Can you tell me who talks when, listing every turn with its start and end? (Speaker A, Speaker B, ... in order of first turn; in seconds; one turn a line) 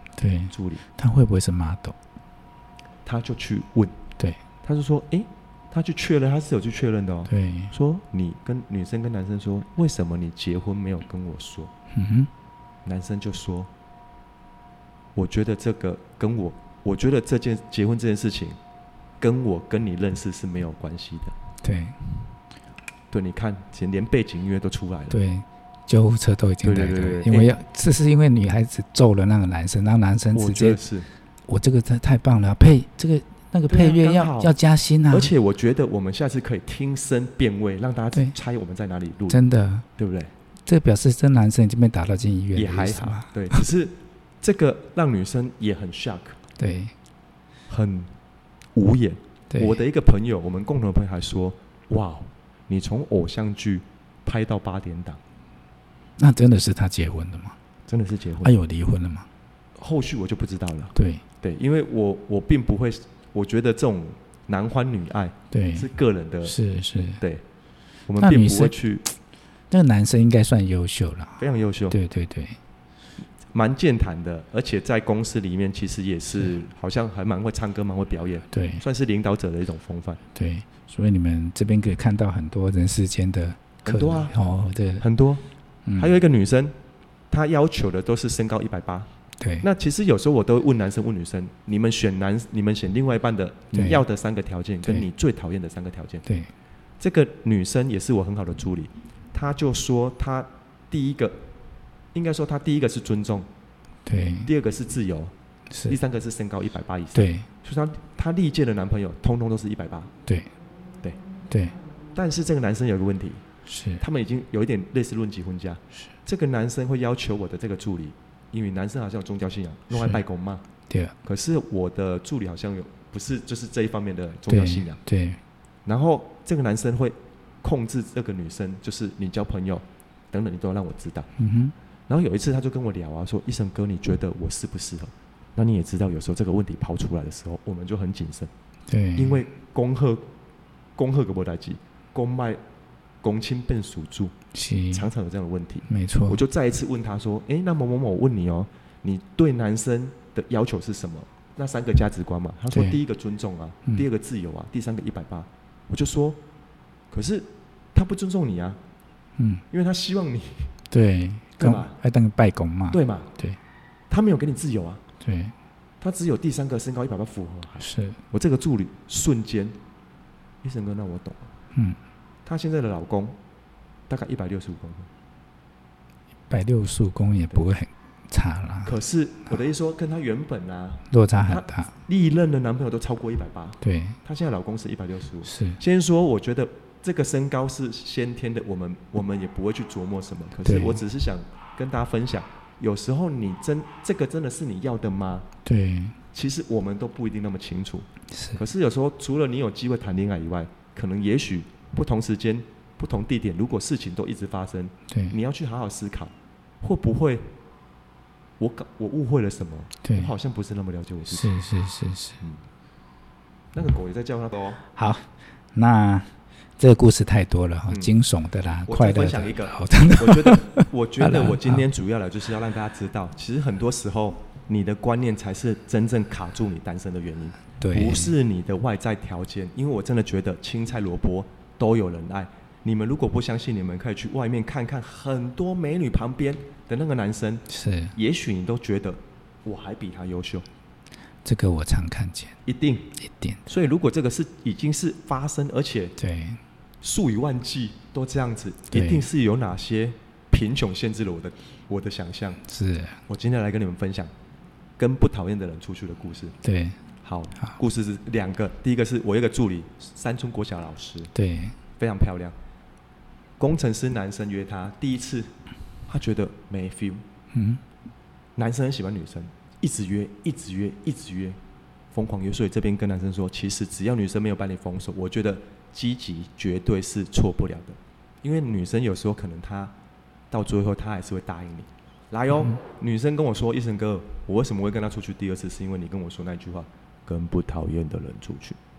Speaker A: 0.2-1.9
Speaker B: 0.5-0.8
Speaker B: 3.0-4.0
Speaker B: 4.6-11.7
Speaker A: 7.3-7.7
Speaker A: 11.9-12.3
Speaker B: 12.8-13.7
Speaker B: 15.2-18.6
Speaker B: 19.2-21.4
Speaker A: 21.6-22.2
Speaker B: 23.1-25.2
Speaker A: 25.1-30.8
Speaker B: 26.6-27.6
Speaker B: 30.3-31.1
Speaker A: 31.5-35.3
Speaker B: 33.7-34.5
Speaker B: 35.1-39.4
Speaker A: 39.3-39.9
Speaker B: 40.0-40.3
Speaker A: 40.7-43.7
Speaker B: 42.5-46.4
Speaker A: 46.6-46.9
Speaker B: 47.7-48.1
Speaker B: 48.8-55.2
Speaker A: 49.5-49.8
Speaker A: 56.2-57.6
Speaker B: 57.9-58.5
Speaker A: 58.4-59.3
Speaker B: 59.8-66.6
Speaker A: 61.0-61.2
Speaker A: 65.5-65.9
Speaker A: 66.5-67.2
Speaker B: 68.1-69.0
Speaker A: 68.2-68.8
Speaker A: 69.7-72.6
Speaker B: 71.4-72.0
Speaker B: 73.5-80.2
Speaker A: 78.5-78.8
Speaker A: 80.3-85.1
Speaker B: 83.8-84.4
Speaker B: 85.0-85.5
Speaker A: 85.9-86.1
Speaker B: 86.0-86.8
Speaker B: 87.3-89.1
Speaker A: 89.4-89.7
Speaker B: 89.6-96.2
Speaker A: 93.7-94.0
Speaker B: 97.0-101.4
Speaker B: 102.1-103.5
Speaker A: 104.1-104.5
Speaker B: 104.5-105.3
Speaker A: 105.7-106.0
Speaker B: 105.9-110.1
Speaker A: 107.1-107.5
Speaker A: 111.5-111.8
Speaker B: 112.2-113.4
Speaker A: 113.7-114.0
Speaker B: 114.0-120.6
Speaker A: 119.9-120.2
Speaker A: 120.9-121.2
Speaker B: 121.2-125.0
Speaker A: 124.5-125.4
Speaker B: 125.8-131.3
Speaker A: 131.4-131.7
Speaker B: 132.1-138.5
Speaker A: 138.9-139.4
Speaker B: 139.2-140.3
Speaker B: 141.0-142.6
Speaker B: 143.2-144.3
Speaker A: 144.5-145.1
Speaker B: 144.9-156.4
Speaker A: 145.9-146.4
Speaker A: 152.7-153.0
Speaker B: 157.1-158.8
Speaker A: 159.4-159.6
Speaker B: 159.7-160.7
Speaker A: 160.9-163.6
Speaker B: 161.6-162.0
Speaker B: 162.9-163.3
Speaker B: 164.1-165.0
Speaker A: 165.2-165.5
Speaker B: 166.0-169.8
Speaker A: 167.8-168.2
Speaker B: 170.6-171.5
Speaker B: 172.4-173.4
Speaker B: 174.1-175.1
Speaker A: 176.5-178.9
Speaker B: 178.8-195.5
Speaker A: 181.1-181.9
Speaker A: 183.8-184.2
Speaker A: 185.4-185.8
Speaker A: 190.7-191.0
Speaker A: 195.7-196.2
Speaker B: 196.3-207.5
Speaker A: 198.3-198.6
Speaker A: 205.1-205.4
Speaker B: 208.6-211.5
Speaker A: 210.0-210.3
Speaker A: 211.3-212.4
Speaker B: 213.7-214.8
Speaker A: 214.9-221.8
Speaker B: 218.9-240.7
Speaker A: 227.8-228.3
Speaker A: 237.7-238.2
Speaker A: 241.4-242.6
Speaker B: 242.7-246.2
Speaker A: 243.2-243.6
Speaker A: 246.2-246.6
Speaker B: 247.0-252.6
Speaker A: 248.9-249.3
Speaker A: 252.7-253.2
Speaker B: 253.3-254.3
Speaker B: 255.0-256.6
Speaker A: 256.6-257.0
Speaker B: 257.2-261.3
Speaker A: 261.4-261.8
Speaker B: 262.0-262.6
Speaker B: 263.6-265.5
Speaker B: 266.1-267.2
Speaker A: 267.5-267.8
Speaker B: 268.6-271.6
Speaker B: 272.1-279.9
Speaker B: 280.5-288.8